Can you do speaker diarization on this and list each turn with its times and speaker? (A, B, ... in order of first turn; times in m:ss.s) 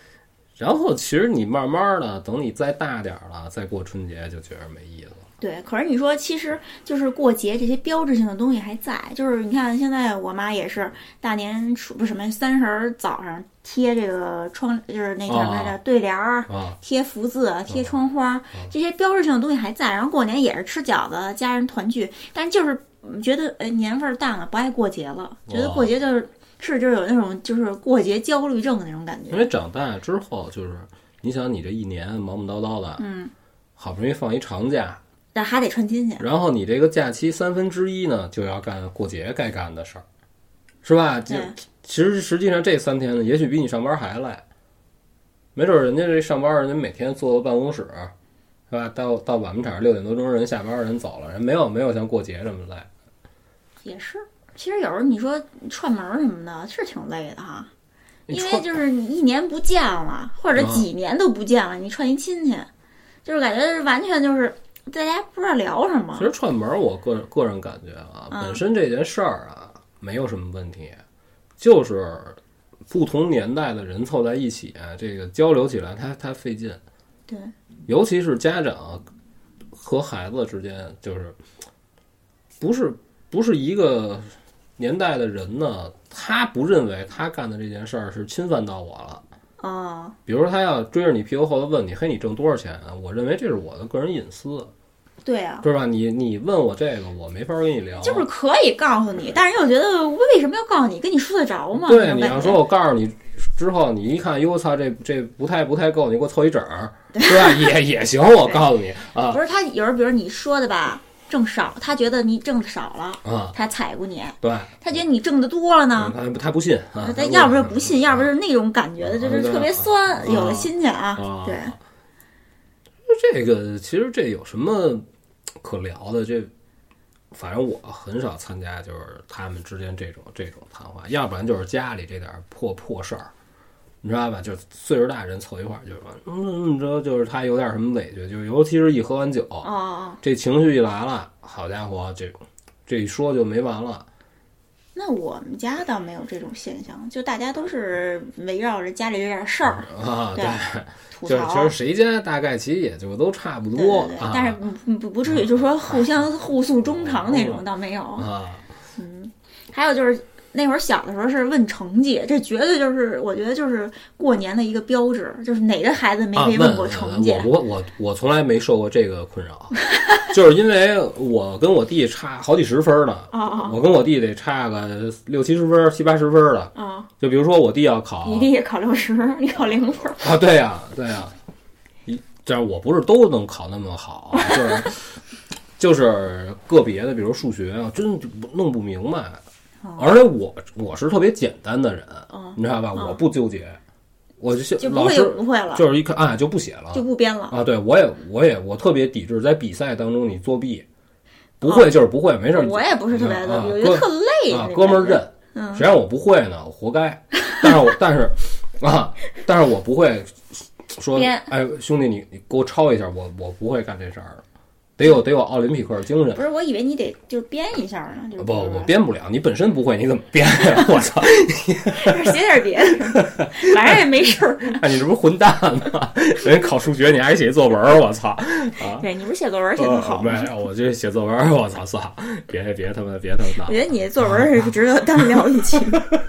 0:00.6-0:05.2 A
0:05.4-0:29.5 B
0:15.3-0:15.8 A
0:16.5-0:16.8 A
0:25.5-0:25.9 A
0:29.3-0:33.0 A
0:33.0-0:33.3 B
0:33.8-0:35.0 A
0:35.3-0:36.2 B
0:36.2-0:40.0 A
0:40.8-0:44.4 A
0:41.3-0:41.5 B
0:45.5-0:48.1 A
0:48.7-0:52.9 A
0:53.8-0:57.7 B
0:58.3-0:58.7 A
0:58.3-1:02.7 B
1:00.5-1:00.9 A
1:03.2-1:06.3 B
1:06.1-1:11.0 A
1:08.3-1:08.6 B
1:11.6-1:16.8 A
1:17.3-1:17.5 B
1:17.9-1:19.0 A
1:19.7-1:21.4 A
1:22.6-1:29.2 A
1:29.6-1:30.2 B
1:30.2-1:34.7 A
1:35.2-1:35.6 B
1:35.6-1:38.3 A
1:38.0-1:42.6 B
1:41.8-1:49.4 A
1:47.1-1:47.7 B
1:49.3-1:56.1 B
1:53.2-1:53.5 A
1:54.4-1:54.8 A
1:56.0-1:58.3 A
1:57.0-2:01.7 B
1:59.0-2:01.8 A
2:03.1-2:05.0 A
2:05.6-2:06.5 A
2:07.3-2:13.3 A
2:14.0-2:19.7 A
2:19.6-2:20.2 B
2:20.2-2:24.1 A
2:24.9-2:30.6 B
2:29.7-2:34.6 A
2:31.1-2:31.7 B
2:33.7-2:38.3 B
2:35.3-2:36.0 A
2:36.9-2:37.6 A
2:38.2-2:38.6 A
2:39.0-2:47.5 B
2:46.3-2:58.5 A
2:49.9-2:50.2 B
2:53.3-2:53.8 B
2:56.7-2:57.1 B
2:58.2-3:00.3 B
3:00.2-3:01.3 A
3:02.1-3:05.1 A
3:04.3-3:04.9 B
3:05.8-3:09.4 A
3:09.8-3:10.1 B
3:10.0-3:13.8 A
3:12.3-3:13.2 B
3:14.4-3:20.8 A
3:14.8-3:15.8 B
3:16.9-3:17.6 B
3:21.6-3:34.4 A
3:21.6-3:21.9 B
3:22.5-3:25.8 B
3:31.1-3:31.5 B
3:35.0-3:36.4 A
3:36.3-3:38.9 B
3:38.4-3:42.3 A
3:40.6-3:41.0 B
3:41.9-3:44.8 B
3:43.1-3:44.0 A
3:44.7-3:49.0 A
3:48.9-3:50.5 B
3:49.8-3:53.9 A
3:53.6-3:56.0 B